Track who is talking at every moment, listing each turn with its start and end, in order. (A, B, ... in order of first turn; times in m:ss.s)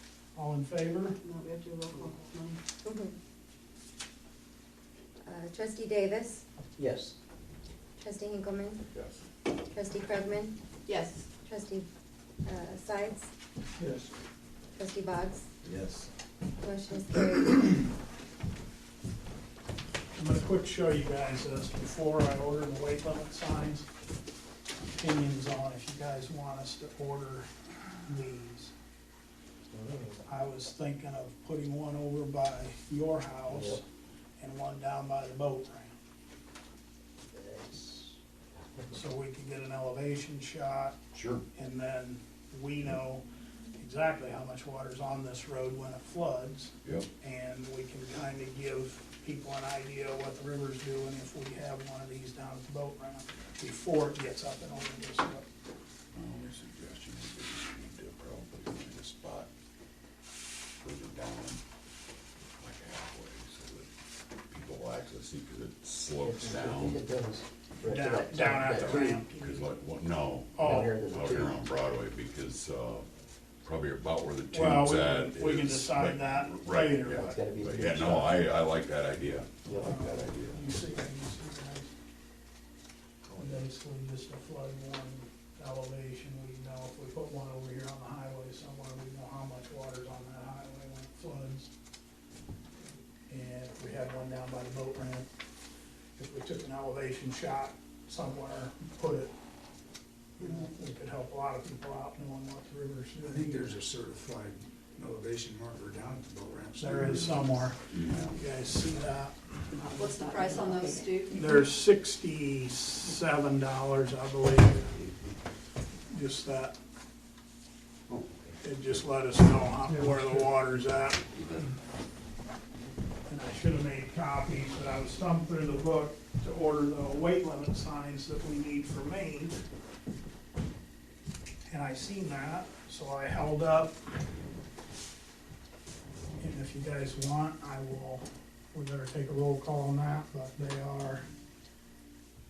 0:00.3-0:01.2 A
0:01.2-0:02.6 B
0:02.8-0:03.1 C
0:05.2-0:06.4 C
0:06.8-0:07.2 D
0:08.0-0:08.8 C
0:08.9-0:09.2 E
0:09.6-0:10.6 C
0:10.8-0:11.3 B
0:11.4-0:11.8 C
0:12.4-0:13.3 C
0:13.8-0:14.1 F
0:14.8-0:15.4 C
0:15.6-0:16.1 F
0:16.6-0:17.7 C
0:20.1-0:23.9 A
0:24.9-0:28.7 A
0:29.7-0:30.2 D
0:30.2-0:33.8 A
0:33.5-0:33.8 D
0:34.4-0:36.0 A
0:37.3-0:38.2 D
0:38.9-0:40.9 A
0:41.1-0:41.4 E
0:41.5-0:43.2 A
0:43.8-0:55.4 A
0:56.1-0:59.5 E
1:00.8-1:01.6 E
1:02.6-1:03.9 E
1:04.5-1:07.0 E
1:06.2-1:09.2 D
1:07.8-1:09.7 A
1:08.6-1:13.1 E
1:10.5-1:11.0 A
1:10.6-1:11.6 D
1:13.6-1:20.7 E
1:14.5-1:17.4 A
1:17.1-1:18.4 D
1:19.7-1:20.0 D
1:19.8-1:21.9 A
1:23.4-1:31.7 A
1:33.3-1:35.3 A
1:36.2-1:39.3 A
1:40.4-1:43.7 A
1:43.1-1:47.7 F
1:46.8-1:49.9 A
1:47.9-1:48.4 E
1:49.8-1:51.3 C
1:49.9-1:51.4 B
1:51.3-1:55.0 A
1:56.1-1:56.8 A
1:58.1-1:58.5 D
1:58.6-2:01.2 A
2:03.3-2:09.6 A
2:11.7-2:14.1 A
2:16.4-2:21.2 A